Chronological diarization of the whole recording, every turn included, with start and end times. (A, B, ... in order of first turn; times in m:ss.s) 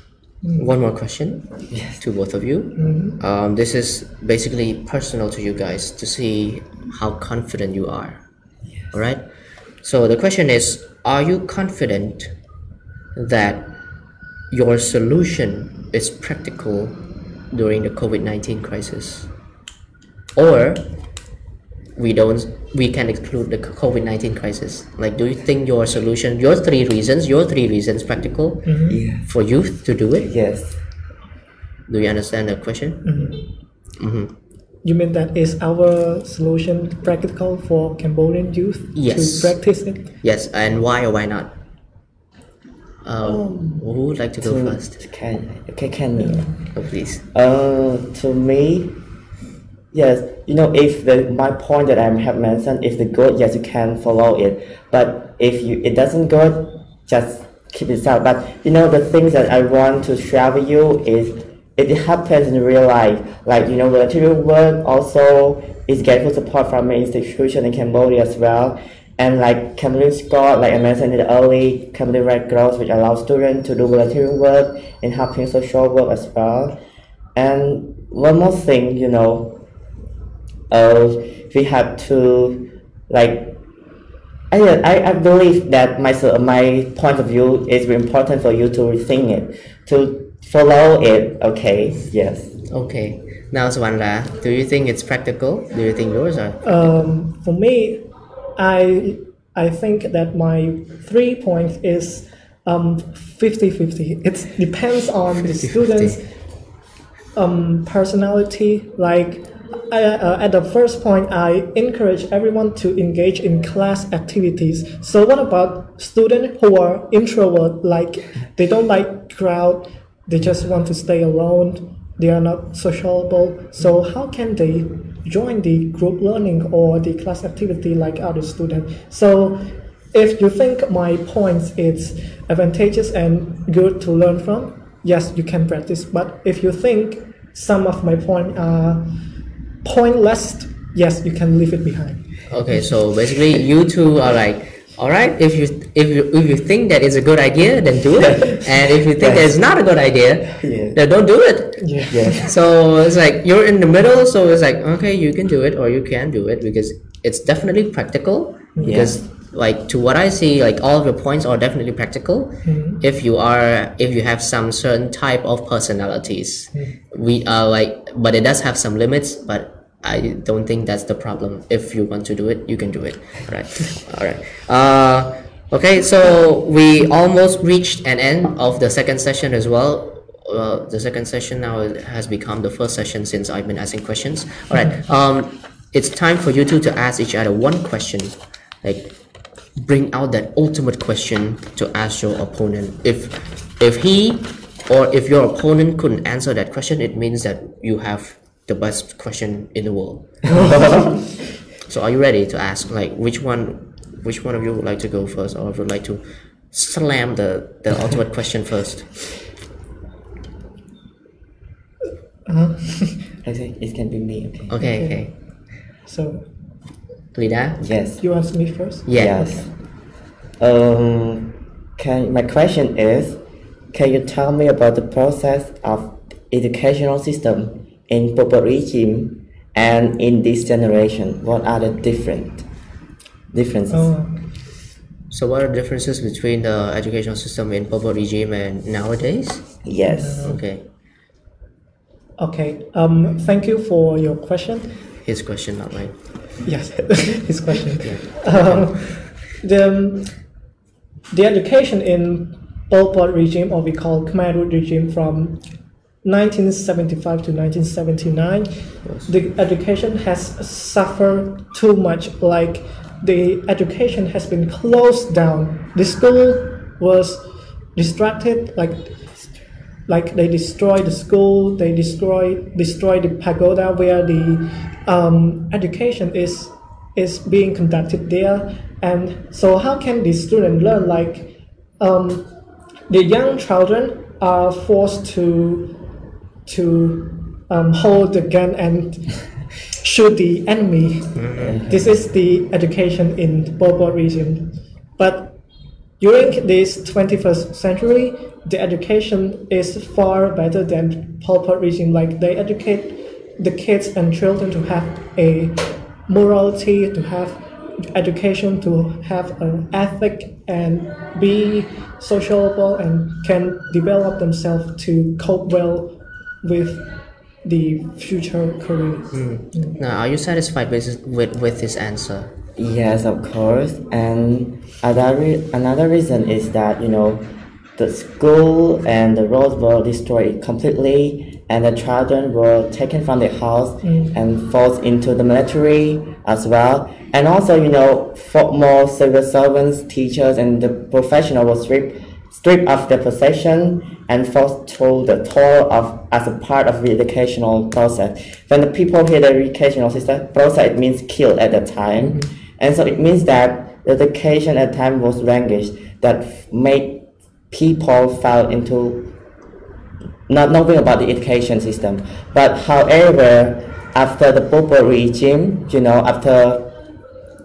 0:00.4-0:00.7 A
0:00.6-0:08.2 B
0:01.7-0:02.0 C
0:02.8-0:03.2 A
0:08.9-0:09.2 B
0:09.8-0:12.3 B
0:13.2-0:13.7 B
0:14.5-0:17.0 B
0:17.5-0:19.3 B
0:20.4-0:20.8 B
0:22.0-0:28.7 B
0:28.6-0:29.0 A
0:28.9-0:29.3 C
0:29.3-0:30.3 B
0:30.2-0:30.8 C
0:31.9-0:33.2 B
0:33.0-0:33.4 A
0:34.0-0:34.3 B
0:34.8-0:40.1 A
0:39.0-0:39.6 B
0:40.2-0:41.5 B
0:43.0-0:44.9 B
0:43.2-0:43.8 A
0:44.4-0:46.5 C
0:46.2-0:46.6 A
0:46.7-0:47.2 B
0:47.3-0:49.0 C
0:49.9-1:16.8 C
1:17.4-1:19.6 C
1:20.7-1:23.6 C
1:24.5-1:32.6 C
1:32.7-1:36.8 B
1:36.6-1:38.0 A
1:38.6-1:46.3 A
1:45.5-1:46.2 B
1:47.4-2:19.1 A
2:19.8-2:22.3 A
2:22.5-3:09.1 B
2:28.2-2:28.6 C
2:29.2-2:29.6 C
2:30.6-2:31.0 C
2:31.8-2:32.4 A
2:32.1-2:32.4 C
2:38.8-2:39.1 A
2:38.8-2:39.2 C
2:42.6-2:43.0 A
3:09.8-3:21.0 B
3:21.9-3:29.2 B
3:32.5-3:33.2 A
3:33.4-3:34.8 C
3:34.7-3:35.3 B
3:34.8-3:35.3 A
3:36.1-3:36.5 A
3:37.3-3:37.8 B
3:37.8-3:38.2 C
3:38.2-3:39.1 A
3:39.1-3:39.5 B
3:39.1-3:39.7 C
3:40.6-3:43.4 C
3:43.9-3:52.7 C
3:53.5-3:54.1 C
3:53.9-3:54.4 A
3:55.3-3:59.8 B
3:59.8-4:00.5 C
4:00.1-4:00.6 A
4:00.4-4:00.8 B
4:02.4-4:05.0 A
4:05.2-4:06.2 B
4:06.6-4:10.4 A
4:08.0-4:09.4 B
4:11.3-4:15.6 A
4:16.2-4:29.3 A
4:19.0-4:19.3 B
4:30.1-4:42.5 A
4:43.1-4:46.0 A
4:46.7-4:49.3 A
4:50.0-4:55.6 A
4:51.4-4:51.8 B
4:51.6-4:52.1 C
4:56.2-5:20.0 A
5:19.3-5:22.5 B
5:22.8-5:59.3 C
5:34.0-5:34.4 A
6:00.5-6:06.9 C